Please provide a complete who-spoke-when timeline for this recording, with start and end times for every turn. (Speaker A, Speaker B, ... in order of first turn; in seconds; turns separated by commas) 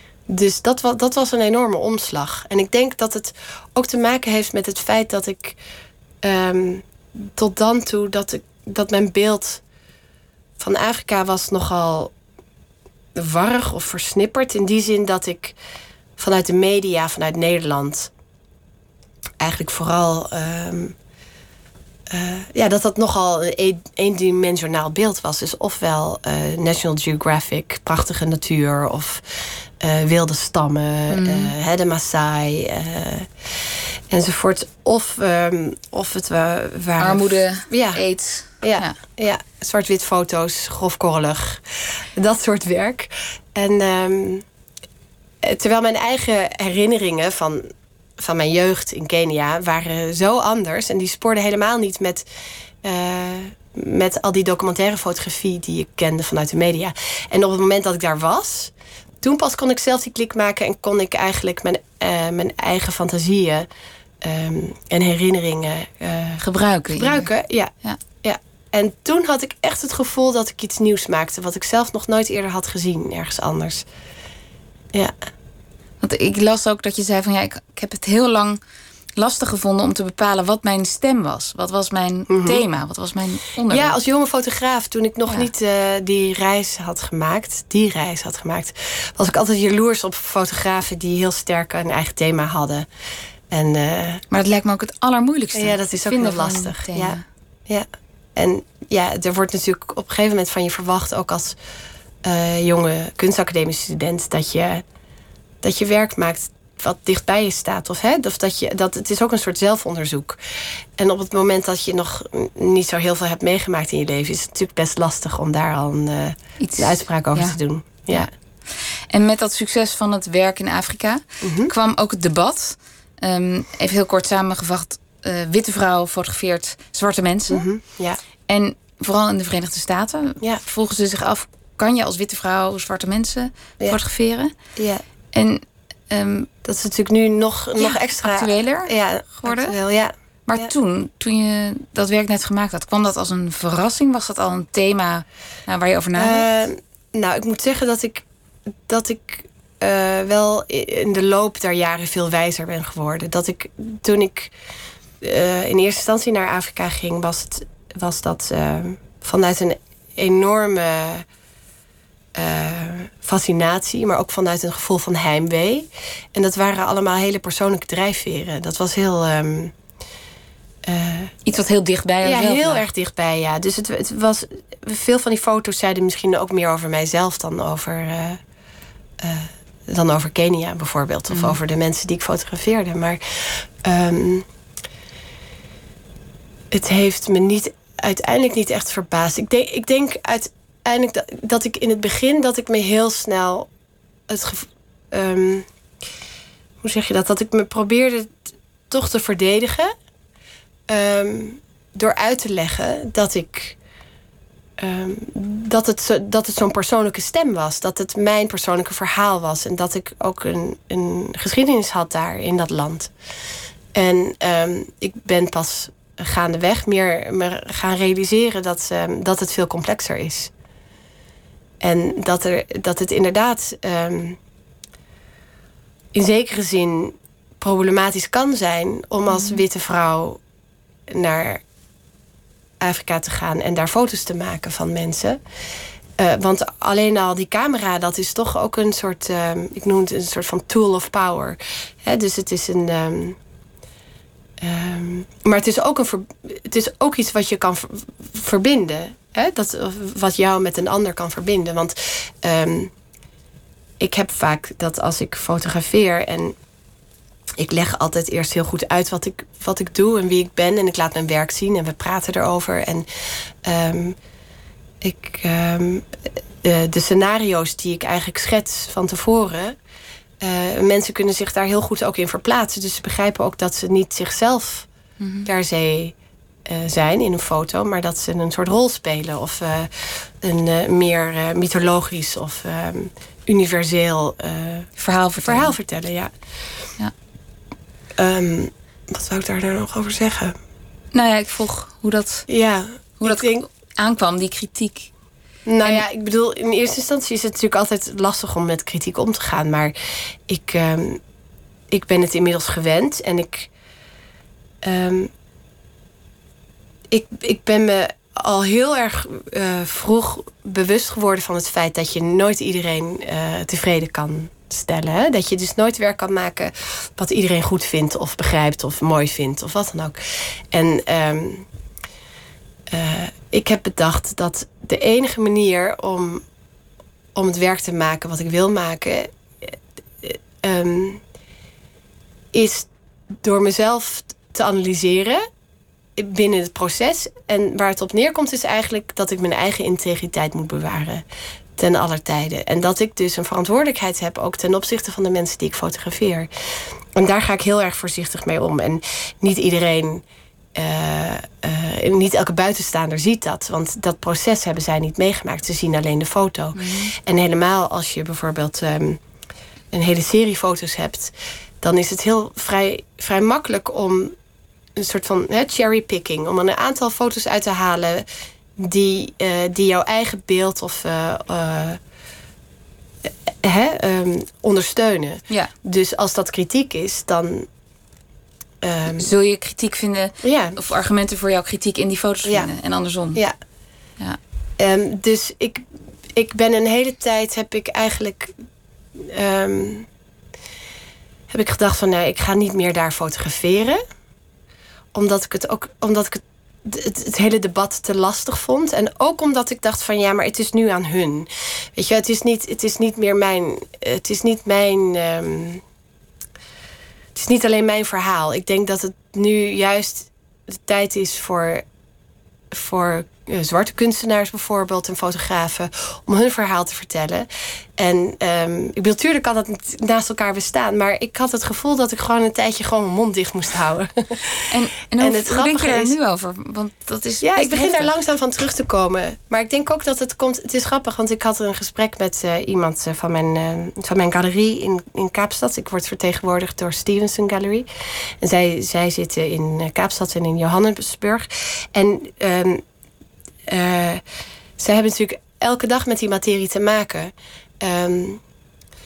Speaker A: 0.3-5.6, Speaker A: 6.2-9.6, Speaker A: 10.6-12.1, Speaker A: 13.1-15.6, Speaker A: 16.2-18.1, Speaker A: 19.4-20.9, Speaker A: 22.1-29.2, Speaker A: 29.8-33.3, Speaker B: 31.1-31.5, Speaker A: 34.1-38.0, Speaker B: 37.0-39.0, Speaker A: 38.6-44.4, Speaker A: 45.4-52.3, Speaker A: 52.8-63.7, Speaker A: 64.2-67.7, Speaker B: 66.4-67.3, Speaker A: 68.2-73.8, Speaker B: 76.0-78.6, Speaker B: 79.2-83.9, Speaker A: 82.3-82.6, Speaker A: 83.7-92.9, Speaker A: 93.5-94.2, Speaker B: 94.3-97.2, Speaker A: 95.5-97.2, Speaker A: 97.7-101.6, Speaker A: 102.2-104.8, Speaker A: 105.6-110.4, Speaker A: 111.0-118.3, Speaker B: 116.6-118.3, Speaker B: 119.1-127.7, Speaker A: 121.4-121.7, Speaker A: 127.5-128.2, Speaker B: 128.5-134.5, Speaker A: 134.8-135.0, Speaker B: 135.3-136.5, Speaker A: 136.6-140.7, Speaker B: 137.8-138.9, Speaker B: 139.4-139.8, Speaker B: 140.5-146.5, Speaker A: 146.2-148.2, Speaker A: 148.9-154.5, Speaker A: 155.2-161.2, Speaker A: 162.3-169.7, Speaker A: 170.8-171.3, Speaker B: 171.4-172.8, Speaker A: 172.2-178.4, Speaker A: 179.2-184.4, Speaker B: 181.3-181.6, Speaker A: 186.7-193.7, Speaker A: 194.3-195.7, Speaker A: 196.8-199.9, Speaker A: 200.9-203.8, Speaker A: 204.8-213.1, Speaker A: 213.9-220.5, Speaker A: 221.8-224.4, Speaker A: 226.1-230.4, Speaker B: 229.3-229.6, Speaker A: 231.1-231.6, Speaker A: 232.8-235.4, Speaker A: 236.2-243.4, Speaker A: 244.6-252.9, Speaker A: 254.0-256.6, Speaker A: 257.6-263.1, Speaker A: 263.6-264.1, Speaker A: 265.0-269.8, Speaker A: 270.4-274.9, Speaker B: 275.2-275.5, Speaker A: 275.4-276.1, Speaker A: 276.6-284.9, Speaker B: 285.0-285.8, Speaker A: 285.4-286.3, Speaker A: 288.2-290.5, Speaker B: 291.1-292.4, Speaker A: 292.5-293.6, Speaker B: 293.2-295.1, Speaker A: 295.7-299.9, Speaker A: 300.5-301.2, Speaker A: 301.9-303.7, Speaker A: 304.8-305.3, Speaker A: 307.1-320.2, Speaker A: 320.7-321.6, Speaker A: 322.9-326.4, Speaker A: 327.3-331.2, Speaker A: 332.5-332.9, Speaker A: 333.4-335.4, Speaker A: 336.1-341.2, Speaker A: 341.8-346.5, Speaker A: 347.1-350.2, Speaker A: 350.7-359.2, Speaker B: 356.7-357.1, Speaker A: 359.9-364.3, Speaker A: 364.9-372.0, Speaker A: 373.2-377.7, Speaker A: 378.8-379.3, Speaker B: 379.1-383.4, Speaker A: 380.4-380.8, Speaker A: 384.8-385.8, Speaker A: 386.3-388.6, Speaker A: 389.2-390.1, Speaker A: 391.5-394.0, Speaker A: 395.1-405.8, Speaker A: 407.3-411.8, Speaker A: 412.7-424.7, Speaker B: 424.7-428.1, Speaker A: 425.2-426.1, Speaker A: 427.4-437.9, Speaker A: 438.4-442.8, Speaker A: 443.7-444.2, Speaker A: 444.8-448.4